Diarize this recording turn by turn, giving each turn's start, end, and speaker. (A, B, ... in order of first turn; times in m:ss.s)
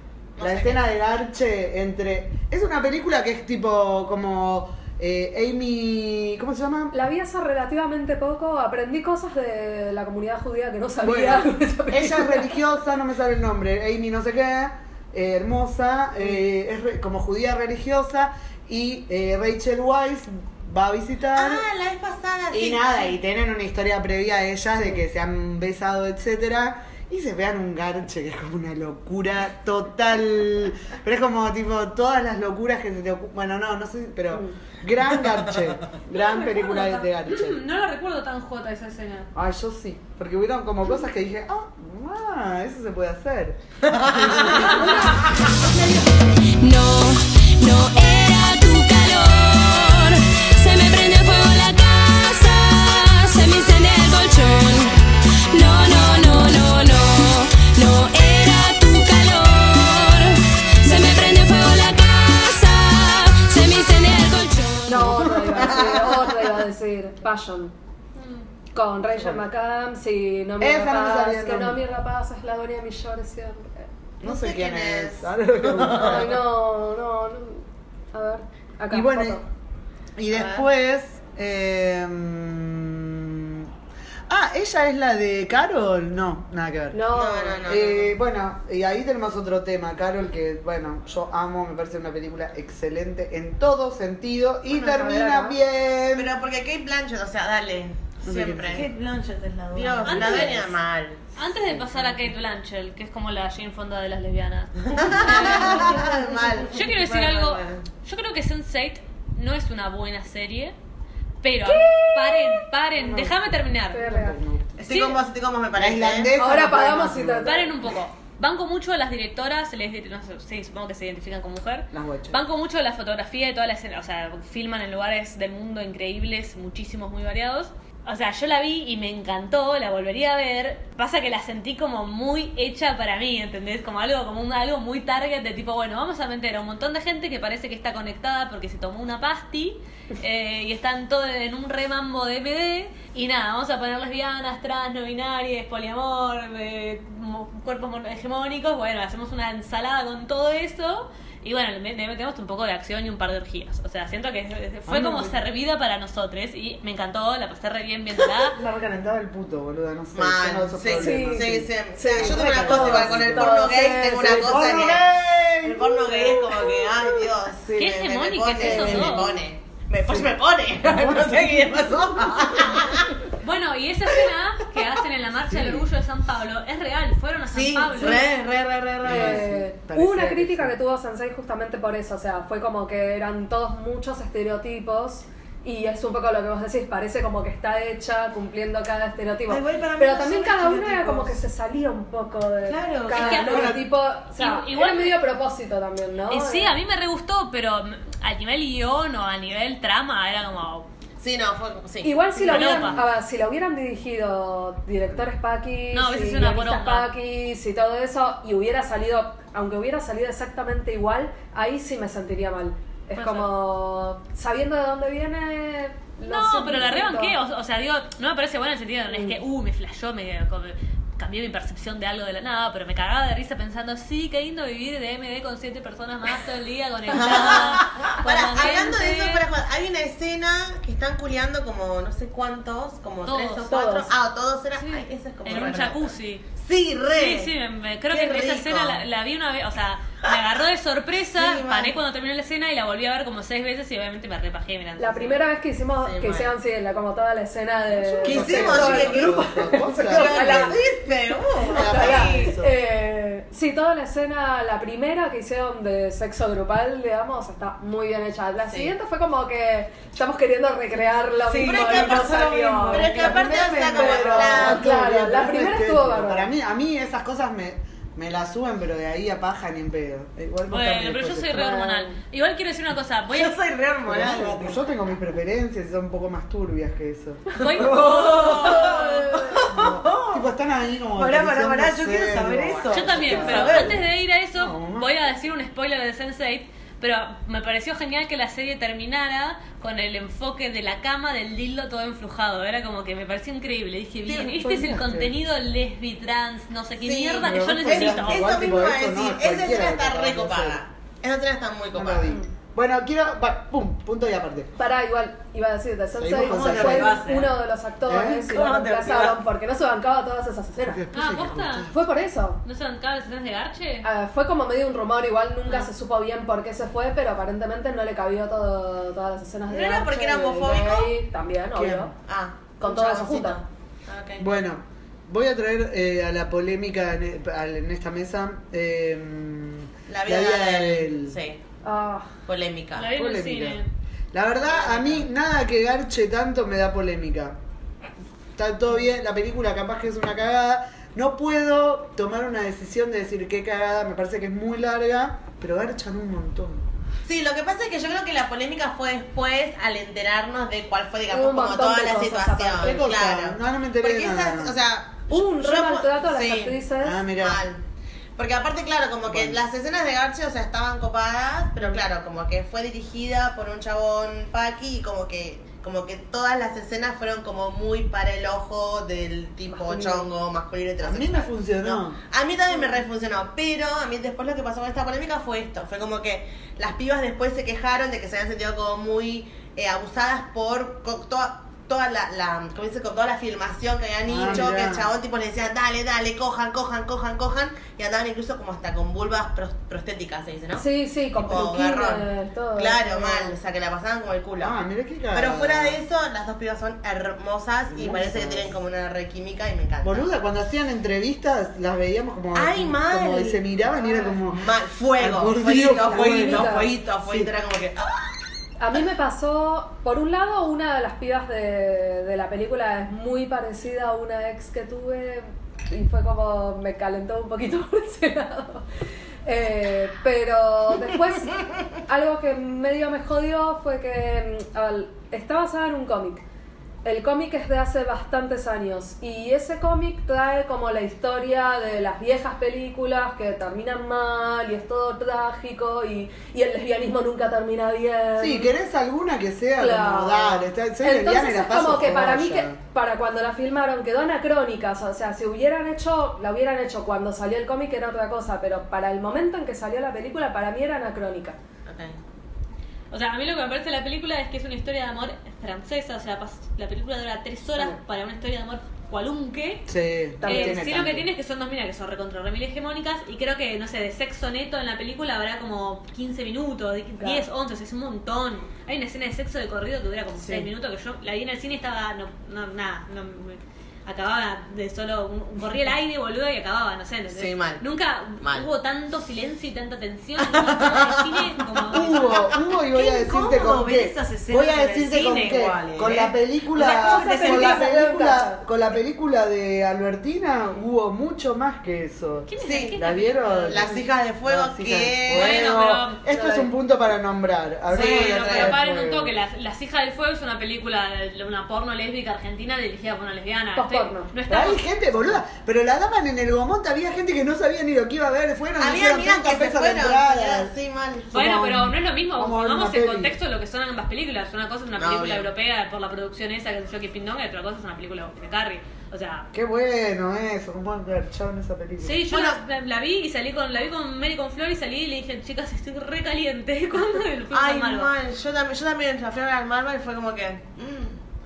0:00.4-0:00.8 A
0:00.4-0:07.0 B
0:06.9-0:12.6 C
0:11.0-0:21.6 B
0:21.4-0:23.2 A
0:22.5-0:37.6 B
0:34.3-0:34.6 C
0:36.1-0:39.3 D
0:39.3-0:45.2 B
0:43.9-0:44.8 A
0:44.5-0:45.2 D
0:46.6-1:05.1 E
1:04.9-1:07.7 C
1:05.0-1:06.1 B
1:08.2-1:08.5 D
1:08.7-1:13.9 C
1:09.1-1:09.4 B
1:10.6-1:11.8 B
1:14.2-1:16.4 A
1:14.2-1:16.4 B
1:16.0-1:19.4 C
1:18.9-1:19.4 B
1:20.2-1:23.7 B
1:20.3-1:20.7 A
1:24.3-1:27.1 B
1:26.9-1:27.7 C
1:27.1-1:28.1 A
1:27.6-1:36.3 B
1:34.7-1:35.6 C
1:36.1-1:38.9 A
1:38.2-1:38.9 B
1:38.7-1:40.7 F
1:39.7-1:41.2 A
1:40.1-1:40.7 D
1:41.4-1:46.1 D
1:41.6-1:42.1 B
1:44.9-1:47.8 A
1:46.7-1:50.8 D
1:51.4-1:54.0 D
1:52.9-1:54.8 B
1:53.9-1:54.4 C
1:54.8-1:56.3 A
1:54.9-1:55.2 D
1:55.8-1:57.7 B
1:56.4-1:57.7 C
1:57.4-2:38.6 D
2:01.9-2:02.4 B
2:34.9-2:35.4 B
2:38.5-2:46.8 B
2:40.1-2:45.1 A
2:40.9-2:44.9 C
2:45.6-2:53.2 A
2:47.6-2:47.9 B
2:47.8-2:49.4 D
2:48.6-2:49.2 B
2:50.0-2:50.3 B
2:50.8-2:53.0 B
2:53.4-2:58.3 D
2:55.5-2:55.9 B
2:57.5-2:59.4 A
2:59.0-3:00.8 B
2:59.0-3:16.8 C
3:09.5-3:11.4 F
3:12.6-3:13.8 F
3:13.1-3:13.8 D
3:14.3-3:15.2 D
3:16.3-3:20.9 D
3:21.2-3:22.3 A
3:22.0-3:37.4 C
3:22.4-3:23.0 B
3:22.5-3:23.0 D
3:25.9-3:27.1 D
3:33.2-3:33.6 D
3:36.3-3:49.4 D
3:39.1-3:39.4 C
3:47.1-3:57.5 A
3:53.2-3:53.9 D
3:53.7-3:54.1 C
3:54.8-3:56.4 D
3:57.1-4:05.4 D
3:58.1-3:59.0 A
4:01.3-4:02.0 A
4:05.0-4:10.8 C
4:06.0-4:06.5 A
4:08.1-4:10.8 B
4:08.2-4:09.5 A
4:10.0-4:12.6 A
4:11.6-4:23.4 C
4:11.7-4:12.7 B
4:18.7-4:19.0 A
4:21.5-4:24.6 F
4:21.6-4:24.8 A
4:23.1-4:31.7 B
4:24.0-4:26.5 C
4:30.7-4:33.6 D
4:31.5-4:32.2 C
4:33.3-4:34.8 F
4:34.0-4:38.9 B
4:37.6-4:39.1 D
4:37.6-4:40.5 F
4:39.1-4:39.6 C
4:39.7-4:44.0 B
4:41.2-4:44.0 F
4:42.9-4:58.6 D
4:44.5-4:45.1 B
4:54.3-4:55.3 B
4:57.0-5:02.3 A
4:57.4-5:00.8 B
5:01.9-5:04.7 B
5:04.8-5:11.0 C
5:06.2-5:07.2 B
5:06.4-5:07.6 F
5:08.1-5:08.6 B
5:08.5-5:09.4 F
5:10.8-5:12.0 B
5:11.1-5:11.9 D
5:11.9-5:12.6 C
5:12.6-5:14.1 D
5:14.0-5:22.1 C
5:19.7-5:21.1 A
5:21.7-5:22.1 B
5:22.3-5:24.5 A
5:22.8-5:23.6 C
5:24.4-5:31.4 B
5:30.1-5:31.6 A
5:31.8-5:32.3 C
5:32.5-5:33.1 A
5:33.0-5:33.9 D
5:33.1-5:33.8 B
5:34.3-5:37.6 B
5:34.7-5:35.2 A
5:38.6-5:46.8 B
5:47.2-5:56.8 A
5:51.3-5:53.1 C
5:52.8-5:54.7 B
5:55.3-5:57.2 C
5:57.0-5:57.6 B
5:57.4-5:57.8 A
5:58.4-6:34.8 A
5:59.3-5:59.6 B
6:09.7-6:10.3 C
6:11.0-6:12.2 B
6:24.2-6:25.1 B
6:30.8-6:33.6 C
6:34.6-6:36.0 B
6:35.3-6:40.3 A
6:37.9-6:38.8 B
6:40.0-6:47.5 B
6:42.6-6:43.6 A
6:44.1-6:48.4 A
6:45.7-6:46.9 C
6:48.8-6:58.8 C
6:59.5-7:06.4 C
7:07.0-7:18.7 C
7:18.4-7:22.8 B
7:19.8-7:31.6 C
7:31.9-7:32.2 A
7:33.1-7:39.9 D
7:39.9-7:41.3 B
7:40.4-7:40.9 C
7:40.4-8:02.4 D
7:47.2-7:47.4 C
7:50.4-7:50.7 A
7:57.3-7:57.8 A
7:58.4-7:58.7 A
8:00.4-8:02.3 A
8:01.9-8:19.3 B
8:02.8-8:07.8 F
8:06.8-8:08.7 C
8:07.2-8:07.8 A
8:12.5-8:13.9 D
8:12.6-8:13.0 A
8:13.6-8:15.9 A
8:15.3-8:16.2 D
8:16.3-8:16.7 C
8:17.9-8:24.8 D
8:17.9-8:18.8 A
8:23.8-8:24.3 C
8:24.5-8:30.7 B
8:28.8-8:31.7 A
8:31.3-8:39.5 D
8:31.4-8:33.4 B
8:35.0-8:35.5 A
8:39.5-8:42.3 B
8:42.0-8:48.1 D
8:42.3-8:42.6 A
8:47.5-8:51.2 A